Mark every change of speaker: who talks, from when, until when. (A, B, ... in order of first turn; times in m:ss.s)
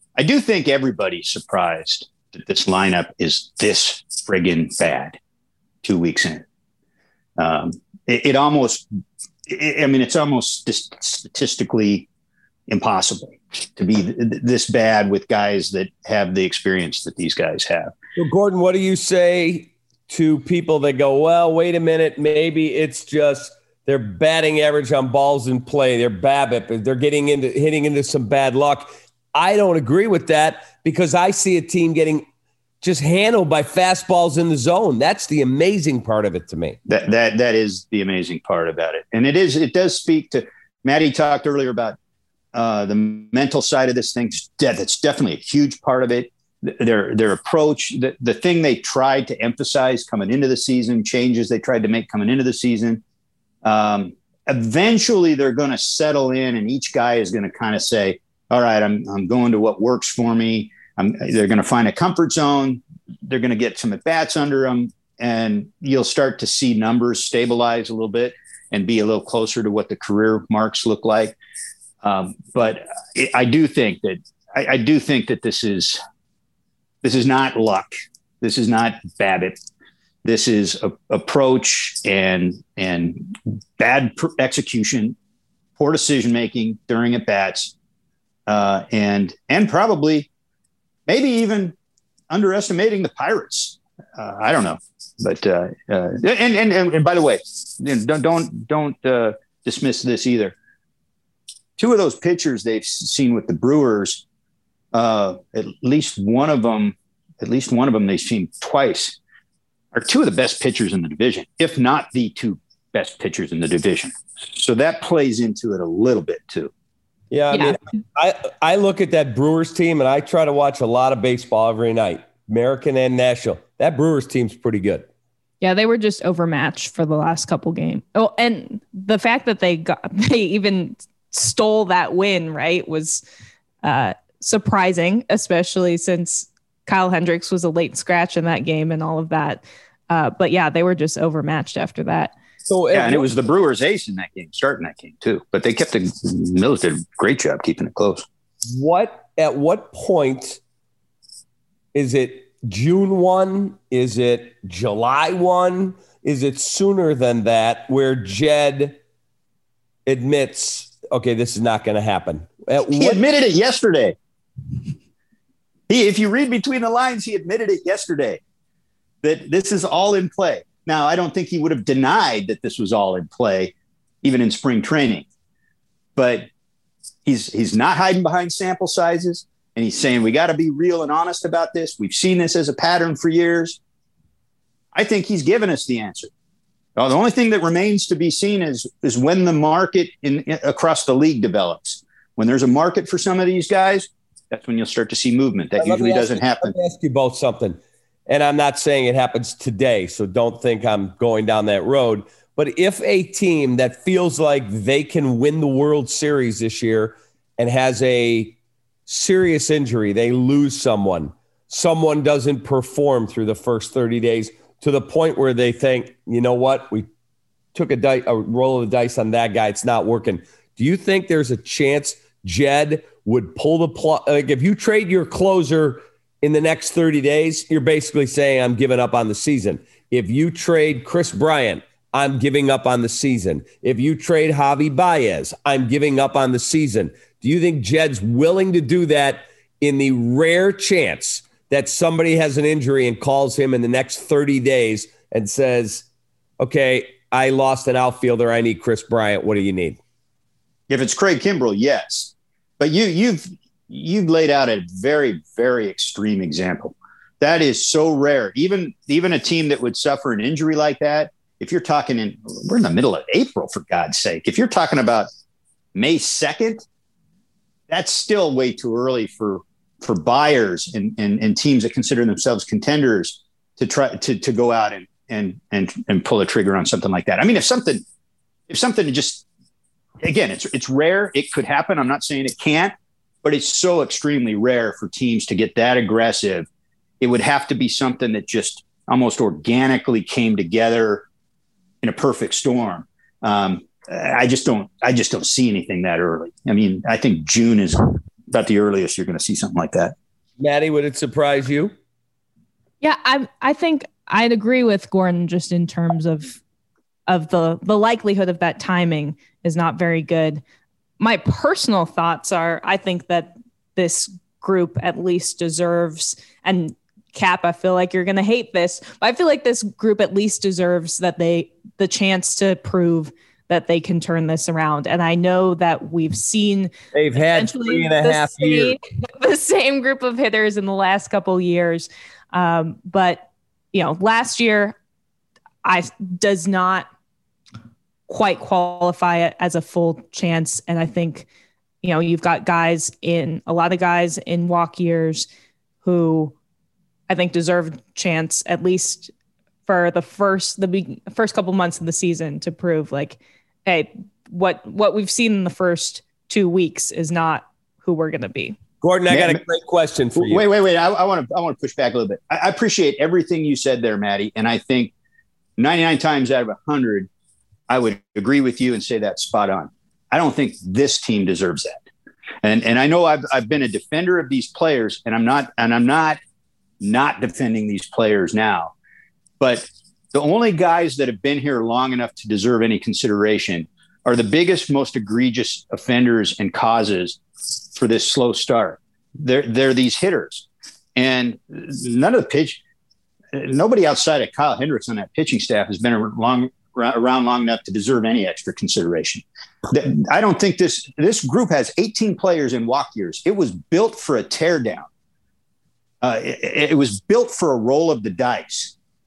0:00.2-0:05.2 A
0:05.8-0:06.4 A
0:07.4-0:08.9 A
0:09.5-0:12.1 A
0:12.7-0:17.9 A
0:18.2-0:32.2 B
0:32.8-0:36.8 B
0:36.8-0:42.0 A
0:42.5-0:53.0 A
0:53.6-1:11.4 A
1:12.0-1:16.0 A
1:17.0-1:19.6 A
1:20.2-1:25.2 A
1:25.8-1:27.7 A
1:28.5-1:30.3 A
1:31.1-1:31.8 A
1:32.3-1:40.5 A
1:41.8-1:44.2 A
1:44.9-1:49.2 A
1:49.9-1:56.7 A
1:57.3-2:05.1 B
2:05.6-2:13.2 C
2:13.8-2:22.3 C
2:22.7-2:23.3 B
2:22.9-2:28.2 A
2:28.7-2:30.6 B
2:31.9-2:39.0 B
2:40.0-2:43.2 B
2:43.0-2:44.2 A
2:45.9-2:48.4 A
2:49.2-2:55.2 A
2:56.2-2:56.5 A
2:57.2-3:03.8 A
3:04.9-3:06.3 A
3:07.0-3:16.7 A
3:15.8-3:28.6 B
3:29.1-3:37.1 B
3:37.7-4:06.0 B
4:06.6-4:10.0 B
4:10.9-4:25.3 A
4:25.9-4:26.8 A
4:27.9-4:38.0 A
4:38.7-4:39.4 A
4:40.2-4:46.7 A
4:47.2-4:51.2 A
4:52.0-5:00.1 A
5:00.6-5:01.9 B
5:03.0-5:06.6 C
5:07.3-5:10.6 C
5:11.2-5:34.9 C
5:27.1-5:29.0 B
5:35.8-5:37.1 C
5:38.3-5:41.5 C
5:42.0-5:45.5 C
5:46.0-5:46.5 C
5:47.3-5:49.3 C
5:49.8-5:58.8 C
5:59.0-6:00.6 B
5:59.3-5:59.6 A
6:00.4-6:05.1 A
6:05.8-6:07.3 A
6:07.9-6:12.0 A
6:12.6-6:16.4 A
6:17.0-6:18.9 A
6:19.6-6:27.4 A
6:27.9-6:32.8 A
6:33.5-6:45.1 A
6:46.2-6:48.9 A